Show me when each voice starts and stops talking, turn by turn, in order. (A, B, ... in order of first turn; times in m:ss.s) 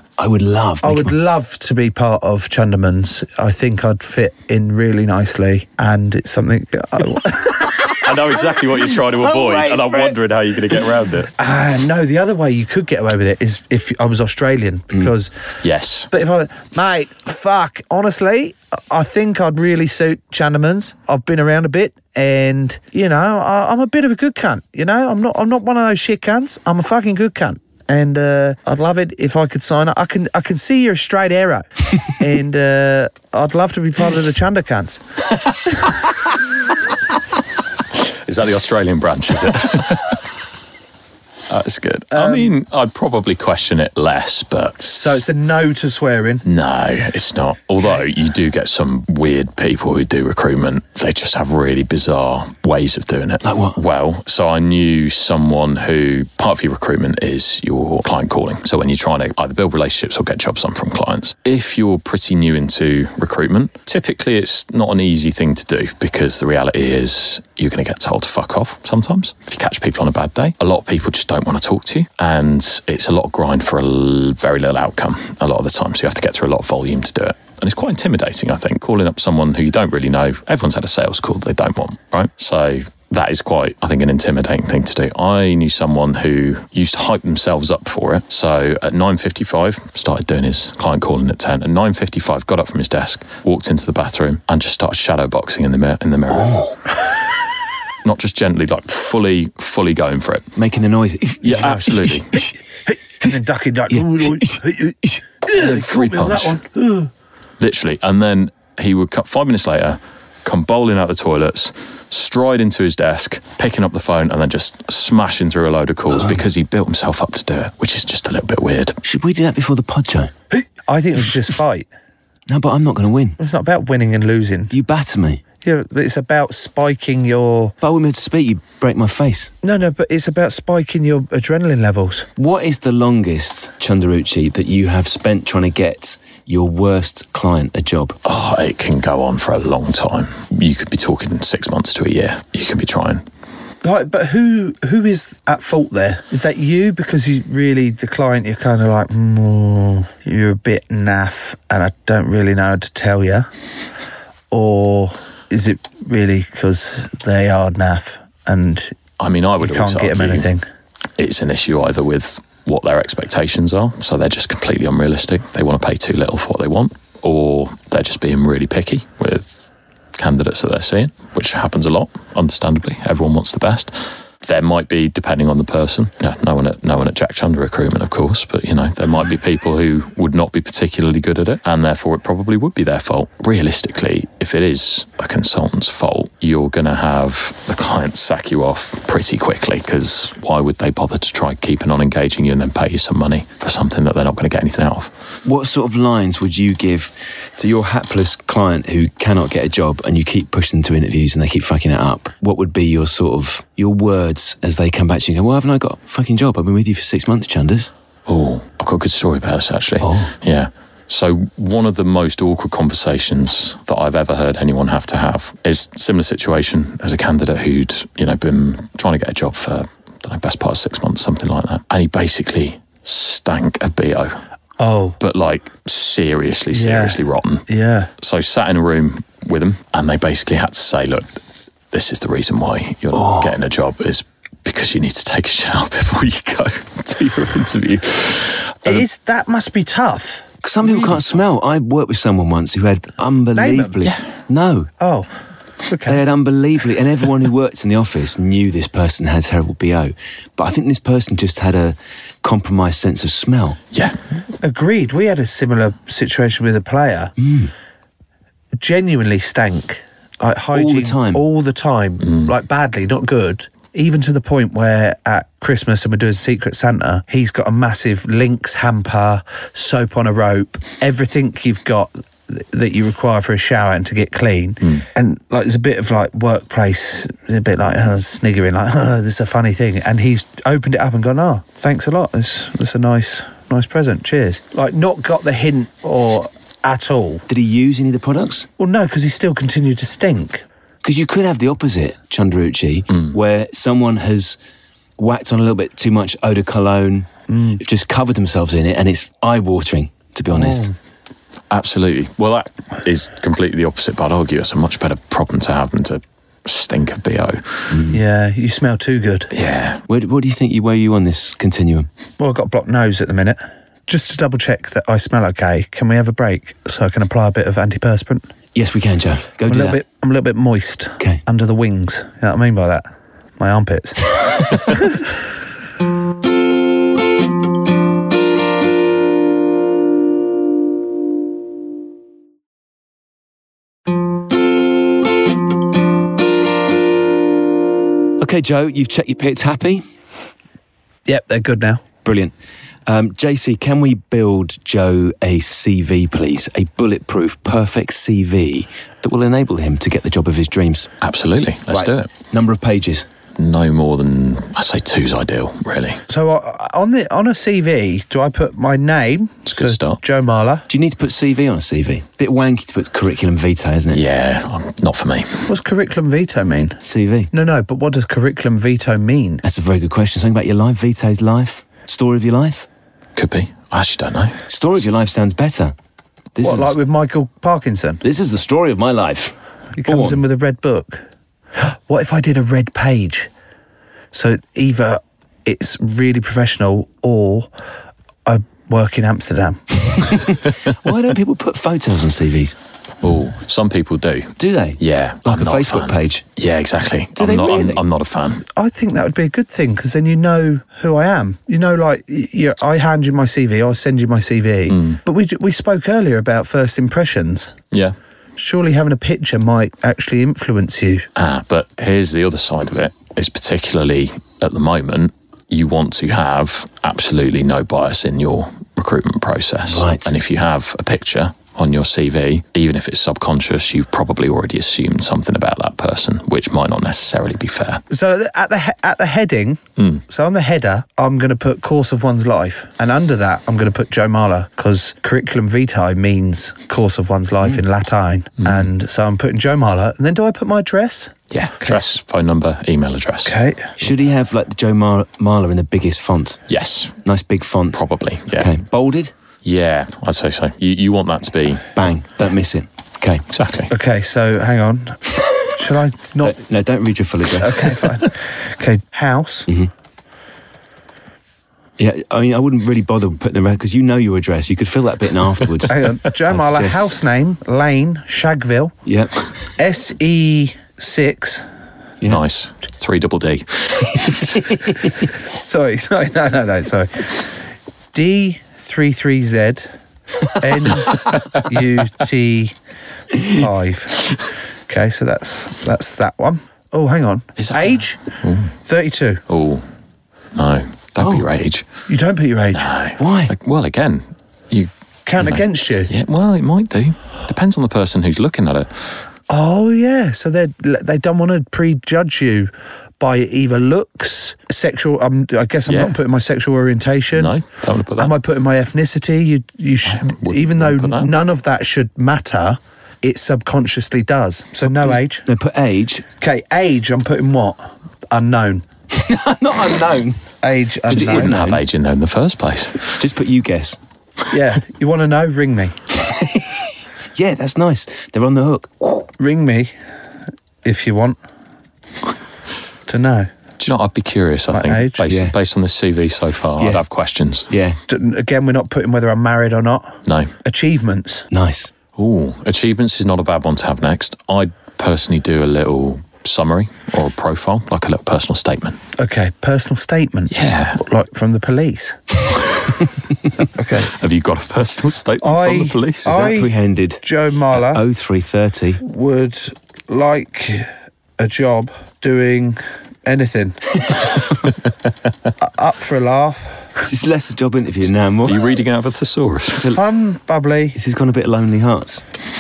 0:00.2-0:01.2 A
0:00.8-0:07.8 B
0:07.9-0:11.3 C
0:09.1-0:10.2 A
0:11.4-0:15.3 B
0:15.6-0:16.1 C
0:16.1-0:35.0 B
0:38.0-0:40.3 C
0:41.5-0:45.2 C
0:42.1-0:42.5 B
0:44.8-0:46.4 B
0:46.4-1:36.8 C
0:53.4-0:53.8 A
1:38.0-1:40.5 C
1:40.6-1:42.5 A
1:41.4-1:42.4 C
1:41.5-1:41.9 B
1:43.2-1:47.1 B
1:43.9-1:45.2 A
1:45.5-1:46.6 C
1:47.6-1:59.0 C
1:56.1-1:56.4 A
1:59.0-2:00.3 A
2:00.5-2:01.9 B
2:02.5-2:03.4 A
2:03.4-2:04.7 B
2:04.7-2:05.4 A
2:05.6-2:07.8 B
2:07.8-2:09.5 A
2:09.6-2:12.3 B
2:12.4-2:18.2 A
2:18.2-2:23.2 C
2:23.8-2:33.5 B
2:34.5-2:39.0 B
2:39.2-2:40.5 C
2:39.6-2:40.6 B
2:41.2-2:49.6 C
2:50.2-3:15.1 C
3:15.4-3:27.9 A
3:28.3-3:44.4 C
3:30.0-3:30.3 A
3:44.8-3:45.2 B
3:45.2-3:47.7 C
3:46.7-3:48.1 B
3:48.2-3:51.4 C
3:51.9-3:59.0 C
3:53.1-3:53.6 A
3:58.8-4:00.5 B
4:00.6-4:04.9 A
4:03.6-4:04.0 B
4:05.0-4:05.3 B
4:05.9-4:06.2 B
4:06.0-4:13.8 A
4:13.9-4:14.2 C
4:14.6-4:17.3 B
4:17.4-4:17.7 A
4:18.8-4:47.4 B
4:20.7-4:21.4 A
4:22.2-4:22.5 C
4:47.5-4:48.7 A
4:48.8-4:50.6 B
4:51.0-4:54.6 A
4:55.2-5:00.9 A
4:57.5-4:57.8 B
5:00.5-5:00.9 B
5:01.7-5:08.0 C
5:07.9-5:08.2 A
5:08.1-5:09.5 B
5:09.5-5:10.0 C
5:10.1-5:12.1 A
5:12.4-5:18.5 B
5:18.8-5:20.0 A
5:19.7-5:23.1 B
5:23.6-5:25.0 B
5:38.4-5:40.0 A
5:41.3-5:42.0 B
5:42.2-5:42.5 A
5:43.1-5:51.1 A
5:51.2-5:52.3 C
5:51.9-5:53.3 A
5:53.6-5:56.2 C
5:56.3-6:00.9 B
5:59.7-6:00.2 C
6:00.9-6:04.2 A
6:04.1-6:05.7 C
6:05.7-6:07.0 B
6:07.0-6:07.5 A
6:07.5-6:09.6 B
6:09.6-6:12.9 A
6:13.4-6:14.6 C
6:14.7-6:15.9 A
6:16.6-6:17.0 A
6:16.6-6:18.2 B
6:18.2-6:20.4 A
6:20.0-6:21.2 B
6:21.8-6:23.5 B
6:24.3-6:27.7 B
6:28.5-6:30.4 B
6:30.9-6:32.8 A
6:33.2-6:38.6 C
6:34.6-6:36.4 A
6:37.4-6:38.0 A
6:38.7-6:47.7 B
6:44.9-6:45.2 C
6:48.6-6:51.3 B
6:51.4-7:08.0 C
6:59.9-7:00.4 A
7:08.1-7:22.1 B
7:10.0-7:10.2 C
7:18.6-7:18.9 C
7:21.5-7:23.6 C
7:23.4-7:23.9 B
7:24.0-7:26.6 A
7:26.7-7:27.2 C
7:27.2-7:29.3 A
7:27.9-7:28.8 C
7:29.6-7:32.0 C
7:32.0-7:33.4 A
7:33.5-7:33.9 C
7:33.9-7:36.6 B
7:36.4-7:38.2 A
7:37.6-7:39.7 B
7:42.0-7:47.0 A
7:45.9-7:49.0 B
7:49.1-7:49.4 A
7:49.8-7:51.6 B
7:52.2-7:54.6 C
7:54.4-7:54.9 A
7:55.6-7:57.4 B
7:58.1-7:59.9 B
8:00.4-8:02.8 B
8:03.5-8:04.3 B
8:04.9-8:08.2 B
8:07.6-8:08.7 C
8:08.8-8:09.4 B
8:09.5-8:09.8 C
8:10.6-8:11.9 C
8:11.2-8:11.4 A
8:12.1-8:12.9 B
8:12.7-8:18.9 C
8:13.2-8:13.5 A
8:15.3-8:16.1 B
8:19.5-8:27.5 B
8:25.9-8:26.2 C
8:27.3-8:28.3 C
8:28.2-8:35.5 B
8:30.0-8:31.4 C
8:35.0-8:36.2 A
8:36.4-8:38.8 B
8:39.1-8:40.4 A
8:40.6-8:41.5 B
8:41.1-8:41.8 A
8:41.1-8:43.2 C
8:43.2-8:44.0 A
8:44.5-8:46.0 B
8:46.3-8:49.2 A
8:49.4-8:49.9 B
8:50.8-8:51.4 B
8:53.1-8:53.5 B
8:53.8-8:57.7 C
8:54.7-8:55.3 B
8:55.3-8:55.6 A
8:56.8-8:57.0 A
8:57.7-8:58.0 A
8:58.1-9:01.5 B
9:00.3-9:00.5 C
9:01.5-9:01.9 A
9:02.2-9:09.0 C
9:09.2-9:12.2 B
9:10.5-9:11.0 C
9:13.5-9:14.1 B
9:14.0-9:16.5 C
9:15.4-9:18.0 B
9:16.2-9:19.0 A
9:19.0-9:23.9 B
9:25.6-9:26.9 B
9:27.0-9:28.7 A
9:28.4-9:29.9 C
9:29.7-9:30.0 A
9:29.9-9:31.0 B
9:31.0-9:32.2 A